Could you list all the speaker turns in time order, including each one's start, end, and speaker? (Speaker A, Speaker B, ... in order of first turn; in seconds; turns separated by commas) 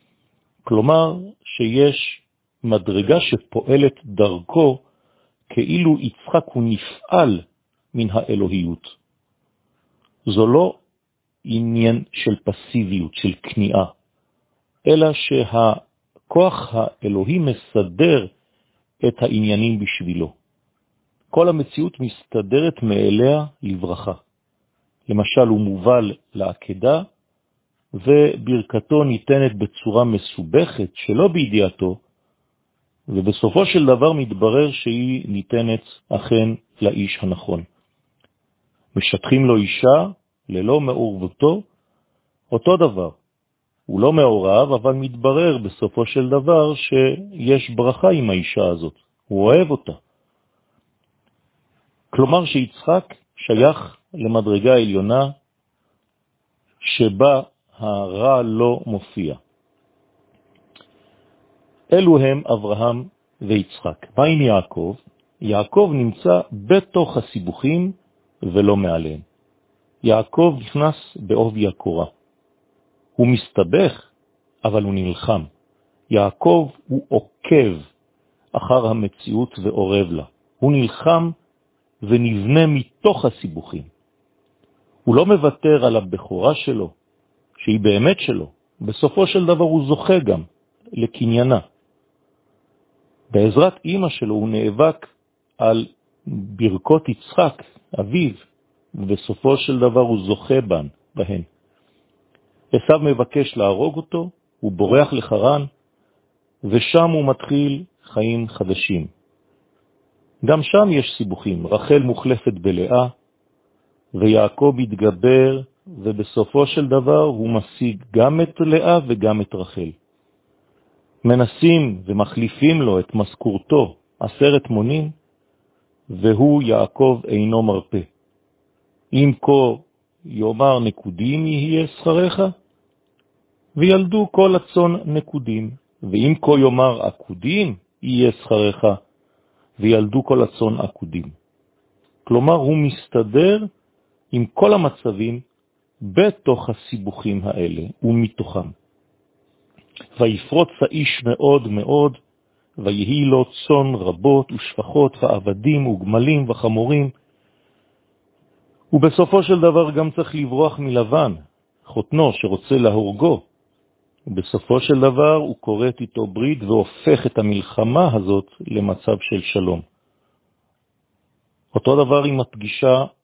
Speaker A: 0.7-4.8, Speaker A: 5.5-7.4, Speaker A: 7.9-9.0, Speaker A: 10.3-10.8, Speaker A: 11.4-13.9, Speaker A: 14.9-18.3, Speaker A: 19.0-20.3, Speaker A: 21.3-24.2, Speaker A: 25.1-27.1, Speaker A: 27.9-32.0, Speaker A: 33.1-37.7, Speaker A: 39.0-41.6, Speaker A: 42.5-43.2, Speaker A: 43.9-50.0, Speaker A: 52.1-55.3, Speaker A: 56.8-59.4, Speaker A: 61.9-69.2, Speaker A: 70.0-72.1, Speaker A: 73.2-74.1, Speaker A: 74.6-75.5, Speaker A: 76.1-77.8, Speaker A: 78.5-81.3, Speaker A: 82.0-83.9, Speaker A: 85.1-87.0, Speaker A: 87.6-91.6, Speaker A: 93.3-101.5, Speaker A: 102.7-105.7, Speaker A: 106.6-109.1, Speaker A: 110.4-113.1, Speaker A: 114.2-119.9, Speaker A: 121.2-125.1, Speaker A: 126.1-128.1, Speaker A: 129.1-132.5, Speaker A: 133.8-139.0, Speaker A: 139.8-141.3, Speaker A: 142.3-143.7, Speaker A: 144.3-145.4, Speaker A: 146.0-148.7, Speaker A: 150.2-152.2, Speaker A: 152.8-157.1, Speaker A: 158.9-163.4, Speaker A: 164.3-169.8, Speaker A: 171.7-173.1